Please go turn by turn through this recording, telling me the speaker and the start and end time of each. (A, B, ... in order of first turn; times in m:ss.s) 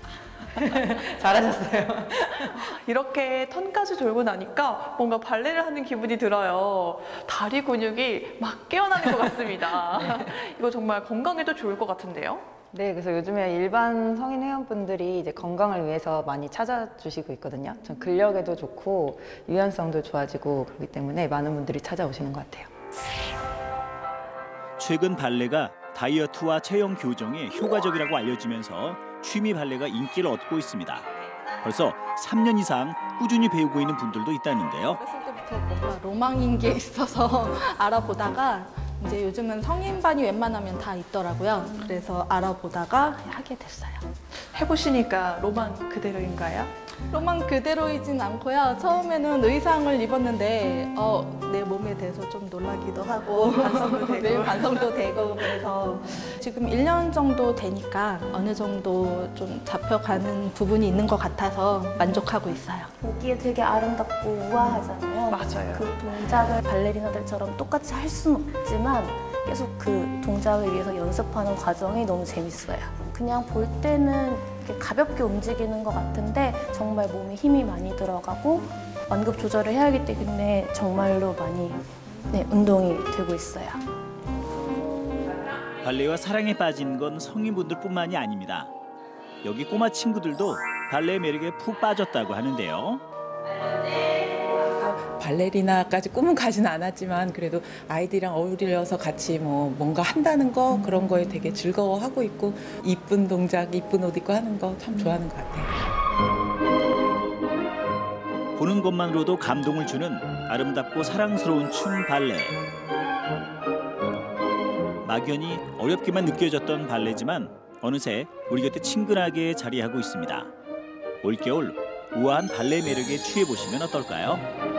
0:00.3-0:02.7 A
0:02.4-0:12.4 B
0:09.2-0:10.3 A
0:12.7-0:22.7 A
0:24.8-0:31.1 C
0:31.6-0:35.0 C
0:34.9-0:44.0 D
0:44.4-0:46.7 B
0:47.1-1:02.9 D
0:53.3-0:55.0 B
1:03.0-1:23.8 E
1:05.3-1:05.9 B
1:25.8-1:28.7 C
1:29.4-1:33.0 C
1:34.5-1:45.7 F
1:48.6-1:52.6 C
1:55.0-2:00.5 C
2:01.2-2:04.4 C